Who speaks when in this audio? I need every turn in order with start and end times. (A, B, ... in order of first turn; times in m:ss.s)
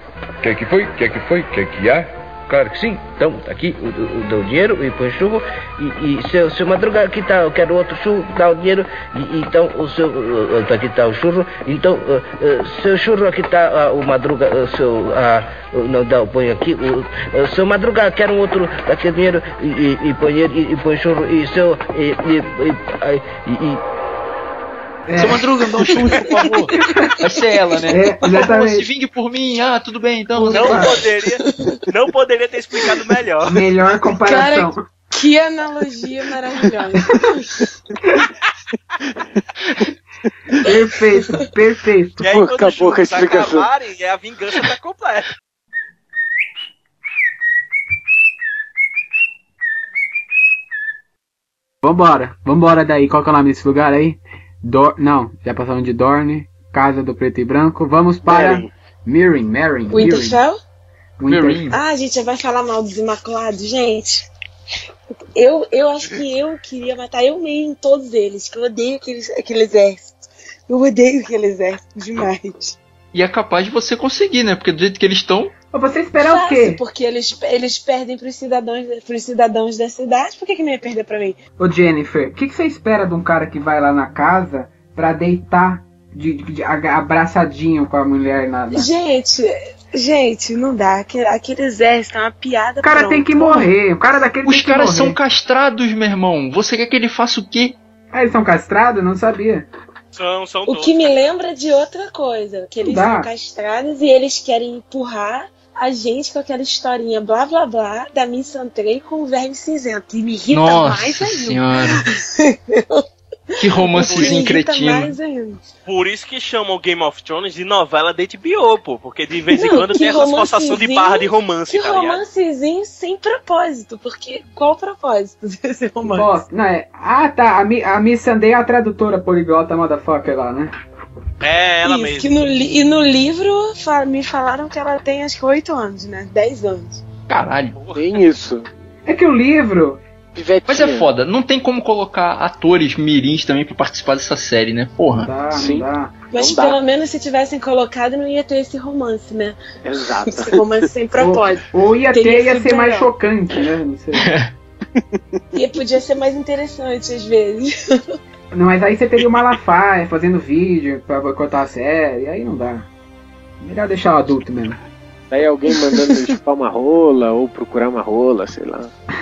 0:00.4-0:02.6 A
0:02.6-0:23.8 B
0:25.1-0:25.4 C
0:25.2-0:30.9 D
0:25.9-0:27.1 E
0:26.8-0:27.1 C
0:27.9-0:28.9 C
0:30.4-0:31.0 C
0:30.5-0:33.5 F
0:31.4-0:31.8 E
0:33.4-0:34.8 C
0:34.2-0:37.7 E
0:39.0-0:40.6 G
0:40.6-0:42.3 C
0:41.2-0:41.5 E
0:42.2-0:45.3 F
0:42.2-0:43.7 G
0:51.8-1:00.4 C
0:58.2-0:58.7 G
0:59.9-1:00.6 E
1:01.2-1:01.7 C
1:01.3-1:01.8 D
1:01.7-1:04.3 E
1:05.3-1:12.8 E
1:13.1-1:15.5 D
1:15.7-1:16.8 C
1:16.2-1:21.4 E
1:21.6-1:28.9 C
1:28.7-1:33.7 E
1:32.8-1:35.2 C
1:34.4-1:37.8 D
1:38.1-1:39.7 C
1:40.1-1:41.3 F
1:40.7-1:55.6 E
1:42.8-1:43.3 C
1:50.5-1:52.0 D
1:53.6-1:55.1 D
1:54.0-1:54.5 F
1:55.8-2:02.2 F
1:59.5-2:06.4 E
2:06.0-2:10.7 C
2:11.4-2:12.4 F
2:11.8-2:17.0 E
2:17.3-2:17.8 D
2:17.7-2:18.2 F
2:17.9-2:18.6 G
2:19.0-2:20.0 C
2:20.3-2:21.1 G
2:20.7-2:25.3 D
2:25.2-2:26.2 C
2:25.5-2:26.8 G
2:26.3-2:29.6 E
2:29.8-2:30.6 G
2:30.1-2:33.1 E
2:31.2-2:34.3 C
2:34.2-2:34.5 D
2:34.9-2:35.2 G
2:35.5-2:38.0 E
2:38.5-2:42.9 C
2:43.6-2:44.8 C
2:45.3-2:48.9 G
2:45.7-2:46.3 E